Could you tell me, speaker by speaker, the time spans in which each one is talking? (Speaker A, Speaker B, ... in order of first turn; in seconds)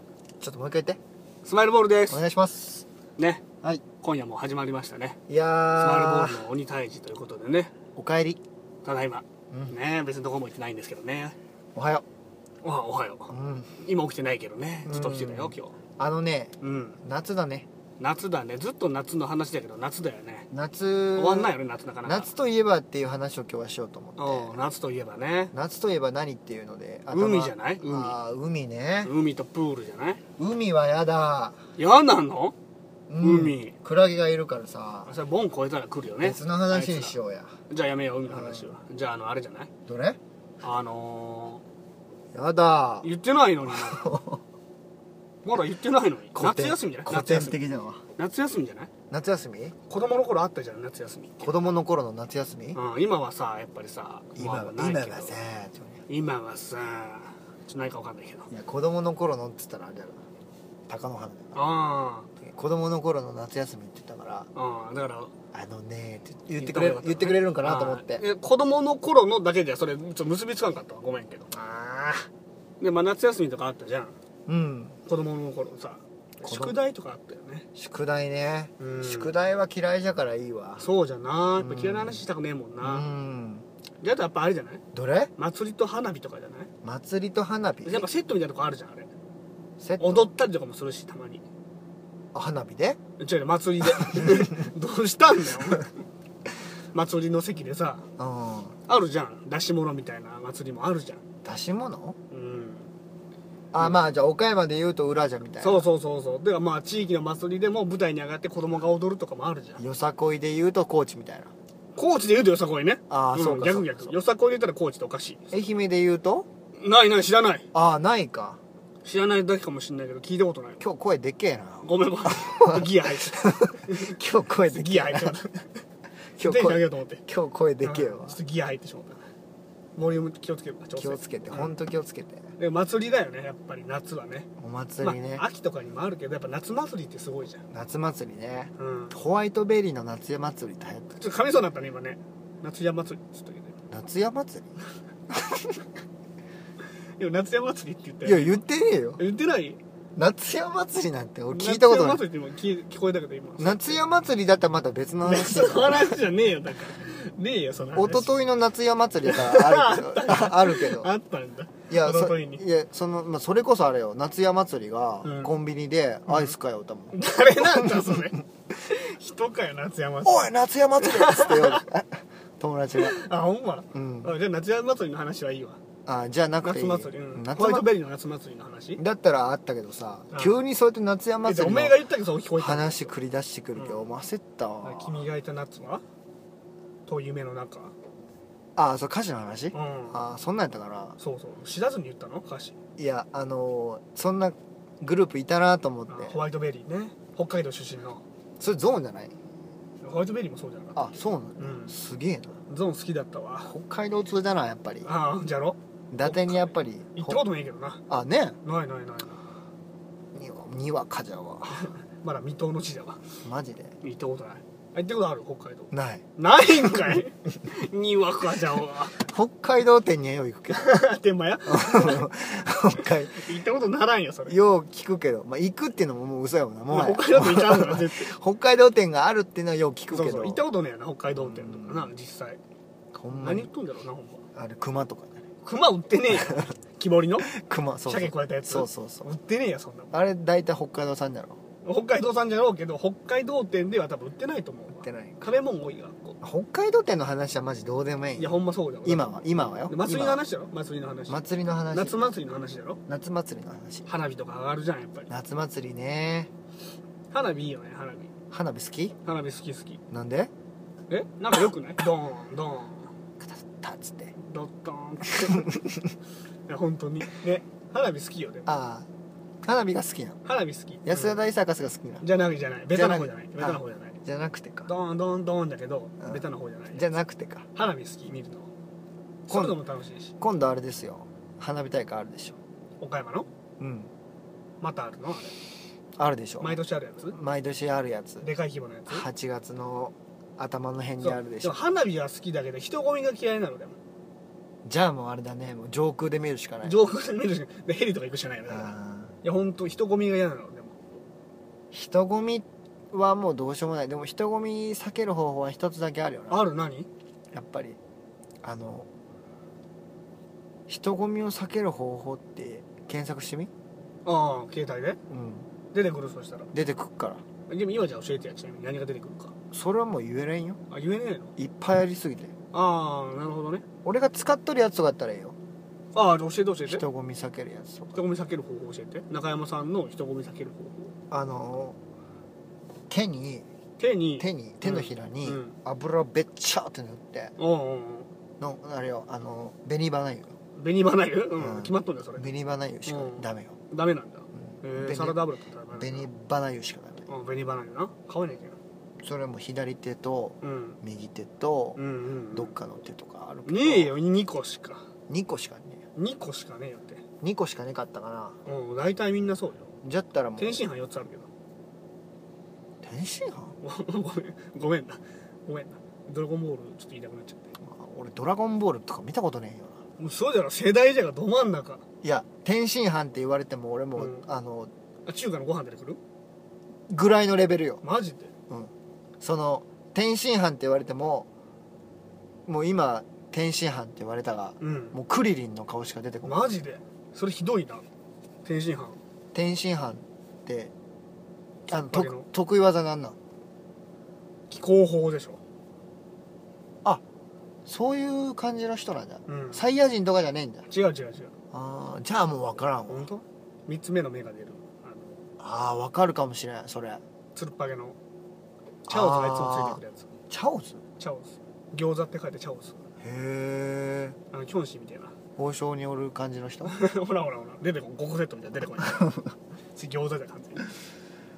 Speaker A: 0.4-1.0, 2.1-2.9, 5.3-6.5, 8.0-8.4, 9.5-9.8, 11.7-12.0, 13.3-13.7, 14.8-17.7, 20.5-24.6, 25.5-29.1, 30.4-31.6, 33.1-35.1, 36.2-37.5, 38.3-38.7, 39.9-40.2, 42.3-43.1, 43.6-44.4, 46.3-48.0, 49.1-49.7, 51.4-52.8, 54.4-56.0, 58.5-60.2, 60.9-61.7, 62.5-64.5, 65.5-68.2, 74.5-75.0, 76.4-76.8, 77.7-80.8, 81.6-82.2, 82.8-83.6, 84.9-85.3, 86.8-88.0, 89.8-90.3, 92.3-93.0, 93.8-94.7, 98.2-98.7, 101.4-102.2, 103.7-105.8, 109.8-111.5, 113.1-114.1, 115.5-116.5, 117.7-118.6, 120.8-125.4, 126.4-128.4, 130.9-132.5, 134.6-135.4, 137.7-141.2, 143.9-144.7, 145.3-145.8, 148.2-149.2, 150.2-152.2, 153.6-156.2, 157.9-161.1, 161.9-168.3, 170.2-173.2, 173.9-174.3, 176.1-177.9, 179.0-182.0, 182.6-185.3, 188.8-191.2, 193.0-196.4, 198.6-199.3, 200.9-202.6, 203.6-205.1, 206.1-207.4, 208.1-208.6, 210.3-211.9, 213.4-213.9, 215.9-216.2, 216.8-217.2, 219.1-220.9, 221.6-223.5, 224.4-230.6, 231.3-232.1, 233.1-233.7, 234.5-235.4, 236.3-236.7, 237.5-239.3, 240.1-241.6, 245.0-245.6, 246.4-250.4, 251.3-252.2, 253.1-254.1, 255.3-256.5, 258.5-259.1, 260.1-260.5, 263.4-264.3, 265.3-266.1, 268.6-269.1, 269.6-270.4, 271.0-272.2, 272.9-274.9, 276.2-277.6, 279.5-279.8, 280.4-282.6, 283.8-284.1, 286.2-286.8, 287.3-288.5, 289.1-291.8, 294.8-297.0, 298.7-299.3, 301.9-306.6, 307.5-308.0, 308.6-309.1, 310.9-313.7, 315.3-315.7, 316.7-317.4, 319.7-320.8, 321.6-322.5, 324.0-325.6, 326.9-328.2, 331.3-332.0, 333.1-333.6, 334.4-337.6, 338.6-340.5, 341.6-343.8, 344.6-345.4, 345.9-347.3, 349.2-354.1, 355.3-356.0, 357.4-358.6, 360.0-360.8, 363.0-363.7, 367.8-370.0, 372.2-374.9, 377.1-378.0, 378.7-381.5, 382.6-386.6, 389.5-390.9, 391.9-393.4, 397.9-400.9, 401.7-403.3, 405.6-407.2, 409.1-411.0, 413.2-414.4, 415.6-416.9, 419.0-419.5
Speaker B: 1.4-2.2, 3.2-3.4, 4.0-5.2, 5.8-7.7, 8.8-11.3, 12.6-15.7, 16.6-17.0, 18.0-20.5, 21.1-22.3, 24.2-25.5, 27.1-28.1, 29.0-30.2, 31.8-32.5, 33.2-33.7, 35.0-37.1, 37.7-39.7, 40.6-41.6, 43.0-44.1, 45.4-47.6, 48.2-48.9, 49.9-51.7, 52.7-55.4, 56.1-58.5, 61.5-62.3, 64.5-65.3, 66.6-72.2, 72.8-74.1, 75.0-77.7, 78.8-79.3, 80.8-83.1, 84.0-84.8, 85.4-86.7, 87.8-89.1, 90.0-91.4, 93.2-95.9, 96.9-98.0, 98.9-101.2, 102.3-102.9, 105.6-109.8, 112.0-115.4, 116.8-117.7, 119.0-120.8, 121.8-125.7, 126.4-127.2, 127.8-129.2, 129.9-131.7, 132.6-134.5, 135.0-137.6, 138.8-139.1, 141.2-143.7, 147.2-148.6, 149.2-149.8, 151.5-154.0, 155.2-158.3, 159.2-162.6, 165.2-165.5, 166.3-166.5, 167.1-171.8, 173.0-175.8, 176.6-179.0, 180.3-180.6, 181.4-183.1, 183.8-184.1, 184.8-186.0, 187.1-187.9, 189.7-190.2, 191.2-192.8, 196.1-198.2, 200.0-201.1, 201.6-201.9, 202.7-203.7, 205.0-208.0, 208.6-209.4, 211.7-213.2, 214.0-219.2, 220.7-222.2, 223.3-224.6, 226.9-228.3, 230.1-232.6, 233.3-234.4, 235.6-237.5, 238.1-240.1, 241.8-246.4, 248.4-253.0, 254.1-255.3, 257.3-258.3, 259.2-260.0, 261.1-263.1, 264.4-265.8, 266.7-268.7, 270.4-271.4, 272.2-274.1, 274.9-277.0, 277.7-278.7, 279.5-280.3, 283.0-283.5, 284.8-285.6, 286.6-287.3, 288.4-289.2, 291.2-293.9, 296.8-300.9, 306.5-307.1, 314.2-315.2, 315.9-316.7, 317.7-319.5, 320.9-321.5, 322.7-323.8, 326.1-327.0, 328.1-331.1, 334.0-335.7, 337.6-338.3, 340.8-342.5, 343.1-346.3, 347.3-348.8, 350.6-351.0, 351.9-352.7, 353.6-355.0, 356.1-357.2, 358.6-359.9, 360.6-361.5, 363.8-367.7, 370.2-372.0, 374.1-374.5, 375.2-376.2, 378.0-378.5, 384.8-385.1, 386.4-388.0, 388.6-389.2, 392.1-392.5, 394.7-395.6, 399.5-399.8, 400.9-401.5, 403.1-405.4, 407.5-408.1, 409.1-410.3, 411.2-413.0, 414.5-415.3, 416.9-419.2, 419.9-420.9